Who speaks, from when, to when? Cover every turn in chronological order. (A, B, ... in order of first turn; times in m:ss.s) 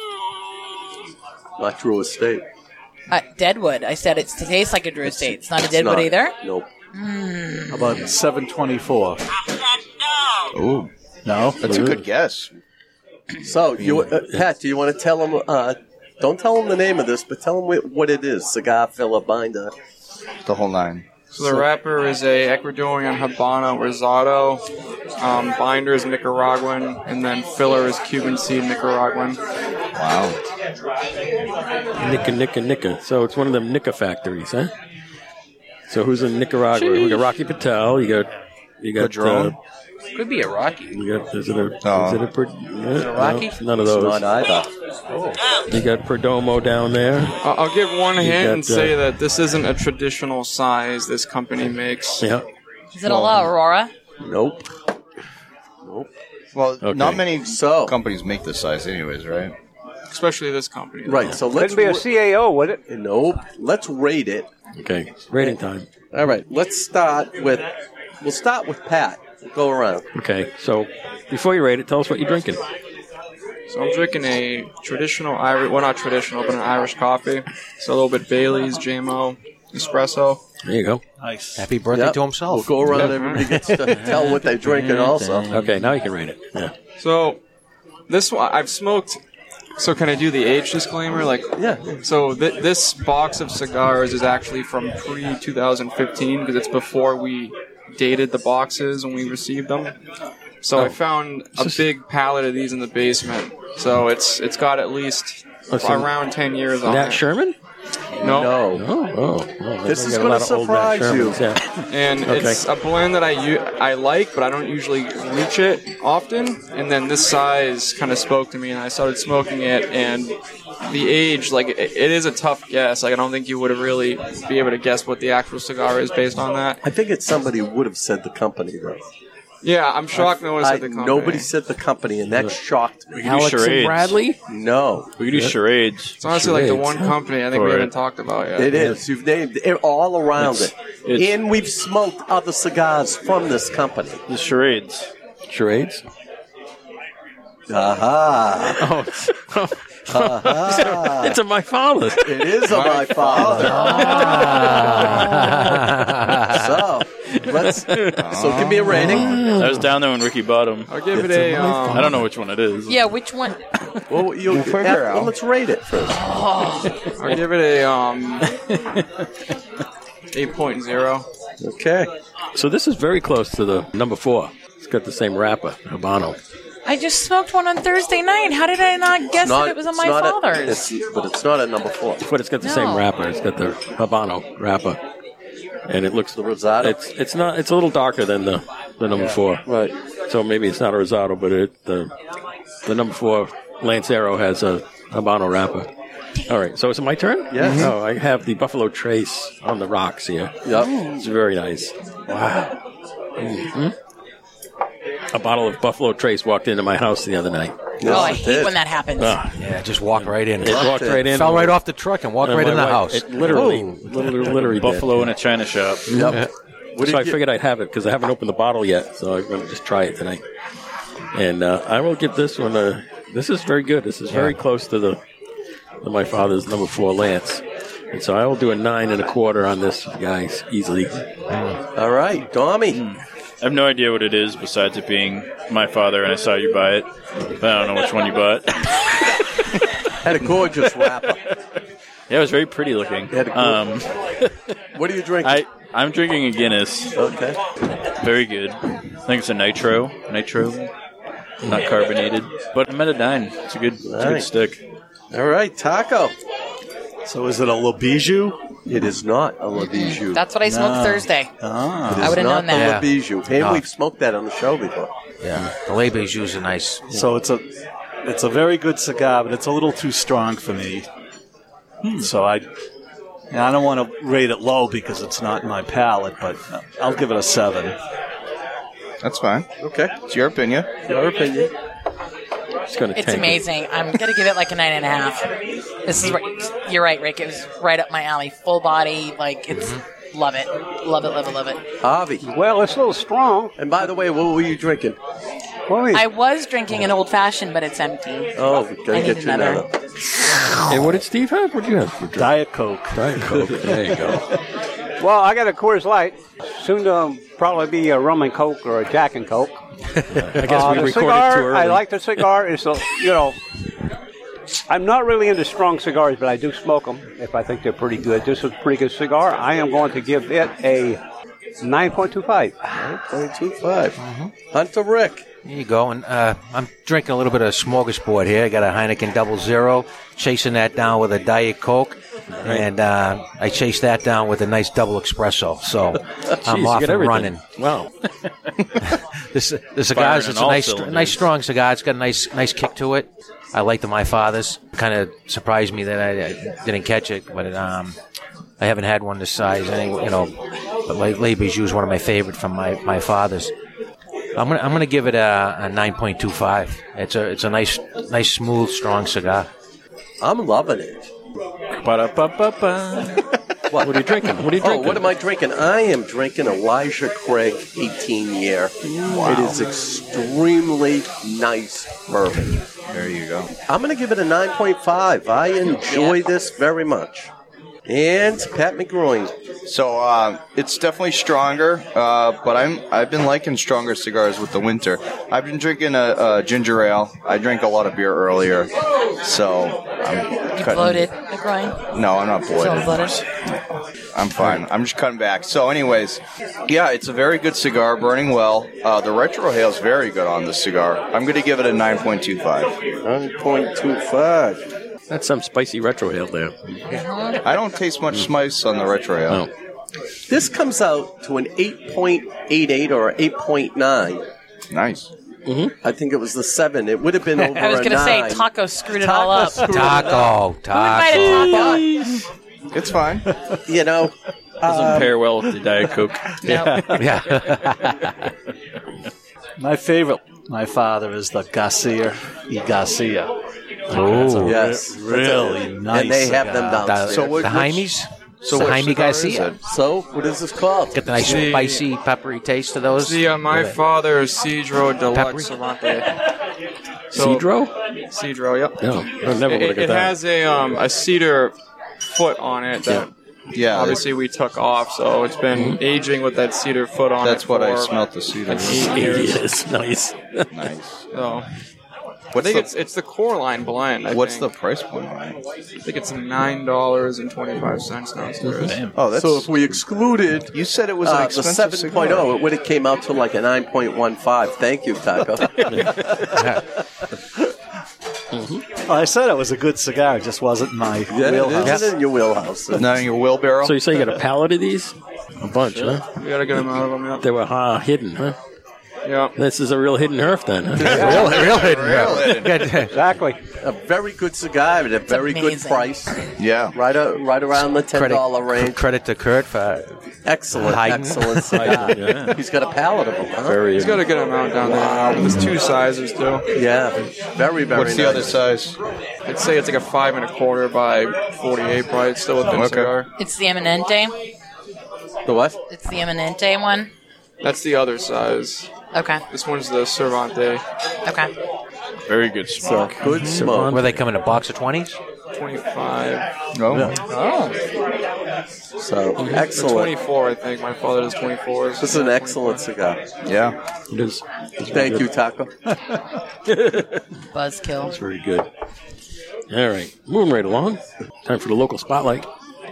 0:01.6-0:02.4 A
0:03.1-0:06.3 B
0:05.0-0:06.7 A
0:06.9-0:08.0 B
0:07.7-0:09.2 C
0:10.5-0:10.9 D
0:11.3-0:11.6 C
0:11.6-0:12.5 D
0:11.7-0:12.0 E
0:13.4-0:19.7 A
0:13.8-0:14.1 D
0:20.5-0:21.1 D
0:21.3-0:24.6 F
0:25.2-0:29.4 F
0:30.0-0:30.4 D
0:32.0-0:34.7 E
0:35.9-0:38.3 E
0:36.7-0:37.2 G
0:38.8-0:39.6 E
0:39.0-0:39.6 D
0:40.1-0:41.0 G
0:40.9-0:44.2 E
0:41.8-0:42.2 D
0:42.9-0:43.6 G
0:43.8-0:44.7 A
0:45.1-0:45.4 G
0:45.7-0:47.4 E
0:47.4-0:52.2 F
0:48.2-0:49.0 E
0:52.2-0:52.4 E
0:52.9-0:53.9 B
0:53.0-0:53.5 D
0:54.2-0:54.7 A
0:56.5-0:59.5 D
0:56.8-0:57.2 E
0:57.5-0:58.0 A
1:00.1-1:01.3 F
1:01.1-1:02.1 A
1:01.5-1:02.8 H
1:02.9-1:04.5 A
1:04.8-1:05.9 E
1:06.1-1:07.7 A
1:08.2-1:10.1 A
1:10.2-1:12.6 E
1:13.7-1:20.4 F
1:20.6-1:21.0 E
1:21.2-1:21.6 C
1:21.6-1:24.0 G
1:21.9-1:25.5 A
1:24.8-1:25.6 C
1:25.5-1:26.7 E
1:27.0-1:27.4 F
1:28.1-1:29.2 F
1:29.8-1:40.0 F
1:31.6-1:32.0 A
1:40.6-1:47.2 F
1:41.6-1:41.9 E
1:45.7-1:46.1 E
1:46.8-1:47.6 E
1:48.2-1:48.6 F
1:48.2-1:48.8 A
1:48.7-1:52.6 E
1:49.9-1:51.4 A
1:51.9-2:06.8 F
2:06.8-2:09.0 A
2:09.6-2:11.5 F
2:10.1-2:13.2 A
2:13.1-2:14.3 I
2:13.2-2:14.4 E
2:14.5-2:15.1 A
2:15.2-2:16.2 I
2:15.3-2:15.6 E
2:16.2-2:18.8 F
2:16.2-2:17.2 E
2:17.5-2:17.9 I
2:18.6-2:24.2 A
2:20.4-2:21.3 I
2:24.3-2:25.1 I
2:25.5-2:26.0 E
2:27.7-2:28.8 A
2:28.8-2:32.4 E
2:30.1-2:31.4 A
2:32.2-2:34.7 A
2:32.6-2:34.1 D
2:33.8-2:36.1 E
2:34.1-2:36.6 G
2:36.5-2:39.4 A
2:37.9-2:38.2 E
2:38.2-2:39.4 D
2:39.0-2:39.9 E
2:39.5-2:40.9 I
2:40.9-2:42.1 F
2:41.2-2:42.2 E
2:41.9-2:43.0 I
2:42.9-2:43.6 B
2:44.1-2:46.2 A
2:44.5-2:45.3 D
2:46.1-2:47.1 B
2:47.2-2:48.5 F
2:50.3-2:51.3 F
2:51.6-2:52.1 A
2:52.6-2:56.4 E
2:56.9-3:00.8 B
2:59.4-3:02.2 A
3:02.2-3:05.0 E
3:02.6-3:03.1 B
3:05.9-3:09.6 E
3:06.4-3:07.0 A
3:09.7-3:10.0 A
3:10.3-3:12.1 E
3:12.8-3:15.9 E
3:16.5-3:22.8 E
3:17.5-3:17.9 A
3:20.6-3:21.1 A
3:23.4-3:24.0 E
3:25.3-3:28.3 E
3:28.0-3:28.8 A
3:28.0-3:29.4 B
3:29.2-3:29.5 E
3:29.6-3:33.4 G
3:30.2-3:31.8 E
3:30.6-3:31.3 A
3:32.4-3:35.3 E
3:33.4-3:33.9 A
3:34.3-3:36.3 I
3:36.1-3:36.4 E
3:36.1-3:37.4 A
3:37.0-3:40.4 E
3:41.3-3:45.2 E
3:44.3-3:44.6 G
3:46.0-3:51.2 E
3:52.0-3:53.0 A
3:52.9-3:57.1 I
3:57.6-3:59.0 I
4:00.2-4:01.4 A
4:02.3-4:04.1 I
4:03.3-4:03.9 A
4:05.0-4:05.6 A
4:05.4-4:07.2 I
4:07.2-4:07.6 A
4:08.2-4:10.9 I
4:11.6-4:14.8 I
4:14.0-4:14.5 A
4:15.3-4:16.3 A
4:17.3-4:18.6 C
4:18.9-4:20.4 A
4:19.8-4:21.5 B
4:20.6-4:22.4 C
4:22.1-4:25.1 A
4:22.2-4:23.0 B
4:22.7-4:23.9 G
4:25.4-4:27.0 G
4:27.1-4:27.6 C
4:28.2-4:31.1 C
4:32.0-4:32.6 C
4:33.5-4:38.0 C
4:39.2-4:39.7 D
4:39.8-4:40.1 A
4:40.3-4:40.9 D
4:41.1-4:41.7 A
4:42.9-4:43.6 E
4:43.2-4:45.5 B
4:46.0-4:51.8 B
4:52.0-4:52.4 A
4:52.4-4:53.7 H
4:53.8-4:55.2 A
4:55.9-4:56.3 H
4:56.1-4:58.5 B
4:58.6-4:59.9 A
4:59.1-4:59.8 B
5:00.9-5:02.5 E
5:02.4-5:04.4 C
5:03.1-5:04.4 E
5:05.2-5:09.7 H
5:10.4-5:10.8 G
5:10.4-5:12.0 E
5:10.6-5:13.6 H
5:14.9-5:21.2 H
5:21.8-5:22.9 H
5:23.0-5:24.2 A
5:24.2-5:24.5 G
5:24.7-5:25.4 A
5:25.6-5:37.6 G
5:32.6-5:32.9 E
5:36.6-5:38.1 E
5:39.1-5:48.2 G
5:40.1-5:41.4 I
5:48.8-5:50.5 G
5:51.1-5:53.7 G
5:54.6-5:59.7 G
6:00.4-6:01.2 A
6:02.0-6:03.3 I
6:03.9-6:04.2 A
6:04.0-6:05.2 E
6:04.8-6:12.8 A
6:09.2-6:09.8 D
6:13.1-6:13.7 D
6:13.9-6:17.5 A
6:16.0-6:16.4 B
6:18.1-6:19.5 A
6:19.9-6:28.9 D
6:29.4-6:31.3 D
6:30.8-6:32.0 B
6:32.2-6:42.9 D
6:32.7-6:33.4 B
6:43.2-6:44.8 A
6:45.3-6:46.8 E
6:47.1-6:47.6 B
6:47.6-6:49.6 D
6:50.5-6:54.4 A
6:54.9-6:55.3 D
6:55.7-6:55.9 E
6:56.0-7:00.6 A
6:57.6-7:00.2 B
6:59.8-7:02.0 G
7:00.9-7:02.4 B
7:01.4-7:02.1 A
7:01.8-7:02.4 E
7:02.9-7:03.5 D
7:03.9-7:05.3 A
7:04.8-7:07.1 E
7:04.9-7:05.8 I
7:06.6-7:07.1 B
7:07.1-7:08.2 G
7:09.8-7:13.5 C
7:14.1-7:17.0 C
7:14.1-7:14.8 G
7:14.6-7:18.0 A
7:16.9-7:19.7 G
7:17.3-7:18.0 D
7:18.6-7:19.8 D
7:18.7-7:19.2 A
7:19.8-7:21.2 A
7:21.1-7:24.0 G
7:21.4-7:22.0 F
7:23.2-7:26.3 F
7:25.3-7:25.7 G
7:27.3-7:27.9 E
7:27.3-7:27.7 F
7:28.3-7:29.0 F
7:29.0-7:30.4 E
7:29.7-7:31.8 F
7:32.3-7:33.3 F
7:33.7-7:34.2 D
7:33.9-7:39.6 F
7:35.7-7:36.0 E
7:37.4-7:39.3 D
7:38.9-7:40.7 E
7:40.7-7:41.2 D
7:41.3-7:41.7 F
7:42.5-7:44.7 F
7:42.5-7:42.9 D
7:44.3-7:45.6 D
7:46.0-7:49.0 F
7:48.6-7:49.0 E
7:49.1-7:49.9 D
7:49.3-7:55.8 A
7:50.7-7:52.5 D
7:55.9-7:56.4 E
7:56.6-7:56.8 G
7:58.5-7:58.8 E
7:59.1-8:02.1 C
8:01.3-8:03.1 A
8:03.0-8:04.0 D
8:03.8-8:06.3 E
8:06.2-8:07.4 F
8:07.4-8:08.6 E
8:09.2-8:09.5 F
8:09.6-8:11.2 E
8:11.0-8:11.8 A
8:11.1-8:12.9 D
8:11.1-8:13.1 G
8:11.1-8:11.5 H
8:13.1-8:13.6 H
8:13.8-8:16.4 A
8:15.3-8:16.1 B
8:16.6-8:16.9 D
8:16.9-8:19.0 A
8:18.1-8:20.2 G
8:20.5-8:23.8 A
8:20.7-8:22.1 G
8:21.7-8:22.5 E
8:23.7-8:24.2 E
8:24.0-8:26.6 F
8:24.8-8:25.2 A
8:26.7-8:28.6 A
8:27.9-8:29.0 D
8:29.5-8:33.3 F
8:32.7-8:33.1 D
8:33.4-8:34.3 B
8:35.5-8:35.8 A
8:35.9-8:37.1 B
8:37.6-8:38.9 F
8:39.1-8:39.4 B
8:39.5-8:40.8 F
8:42.3-8:43.2 I
8:42.8-8:44.0 A
8:43.2-8:45.2 G
8:43.3-8:44.2 E
8:45.5-8:46.4 F
8:46.7-8:47.2 D
8:49.0-8:50.1 A
8:49.4-8:49.6 E
8:49.7-8:52.9 F
8:52.0-8:53.2 A
8:53.4-8:53.8 D
8:54.1-8:55.3 E
8:54.9-8:55.7 A
8:56.7-8:57.2 E
8:57.5-8:58.2 B
8:58.0-8:58.7 E
8:59.7-9:02.5 E